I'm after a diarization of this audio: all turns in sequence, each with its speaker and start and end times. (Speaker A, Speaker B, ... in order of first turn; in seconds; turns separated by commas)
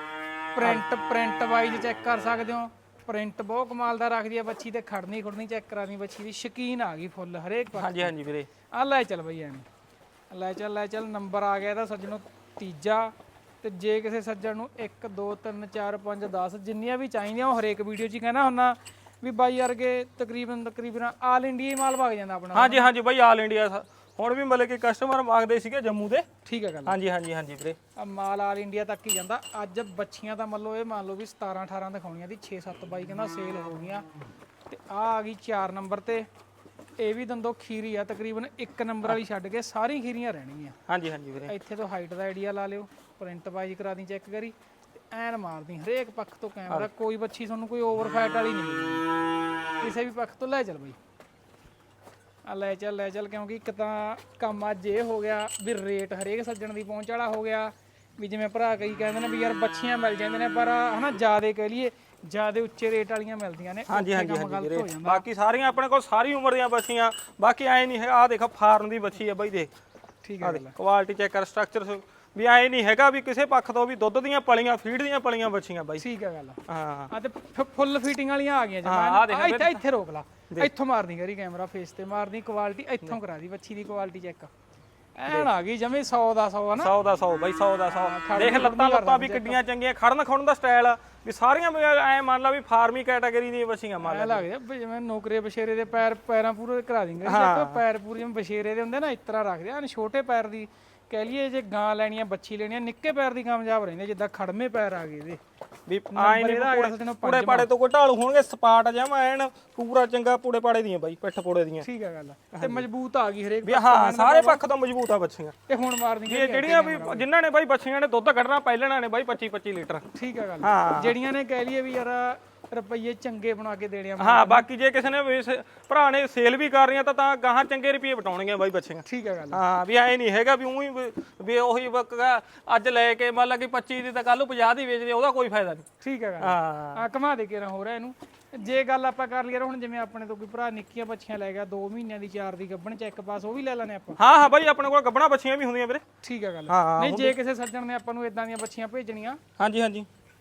Speaker A: 0.6-8.1, Speaker B: 7.8-8.5, Speaker A: 8.7-9.7, Speaker A: 10.3-22.9, Speaker B: 22.5-26.3, Speaker A: 26.4-27.0, Speaker B: 26.9-27.8, Speaker A: 28.0-34.1, Speaker A: 34.7-36.3, Speaker A: 37.0-40.8, Speaker B: 40.9-41.5, Speaker A: 41.5-44.5, Speaker A: 45.1-49.0, Speaker A: 49.8-51.0, Speaker A: 52.5-65.2, Speaker B: 63.9-69.7, Speaker A: 70.2-70.7, Speaker B: 70.4-76.0, Speaker A: 76.0-84.5, Speaker B: 76.7-77.1, Speaker B: 78.8-79.8, Speaker A: 85.2-86.9, Speaker B: 86.8-94.5, Speaker A: 87.9-89.6, Speaker A: 94.0-105.4, Speaker B: 97.2-97.8, Speaker B: 105.9-111.9, Speaker A: 106.2-107.7, Speaker A: 111.8-114.6, Speaker B: 112.5-112.8, Speaker B: 113.6-115.5, Speaker A: 115.7-117.3, Speaker B: 116.3-120.0, Speaker A: 120.1-124.7, Speaker B: 120.6-121.2, Speaker B: 124.2-135.9, Speaker A: 129.1-129.6, Speaker A: 136.0-144.2, Speaker B: 136.4-137.1, Speaker B: 144.2-146.0, Speaker A: 146.2-149.4, Speaker B: 146.7-147.4, Speaker B: 149.6-150.1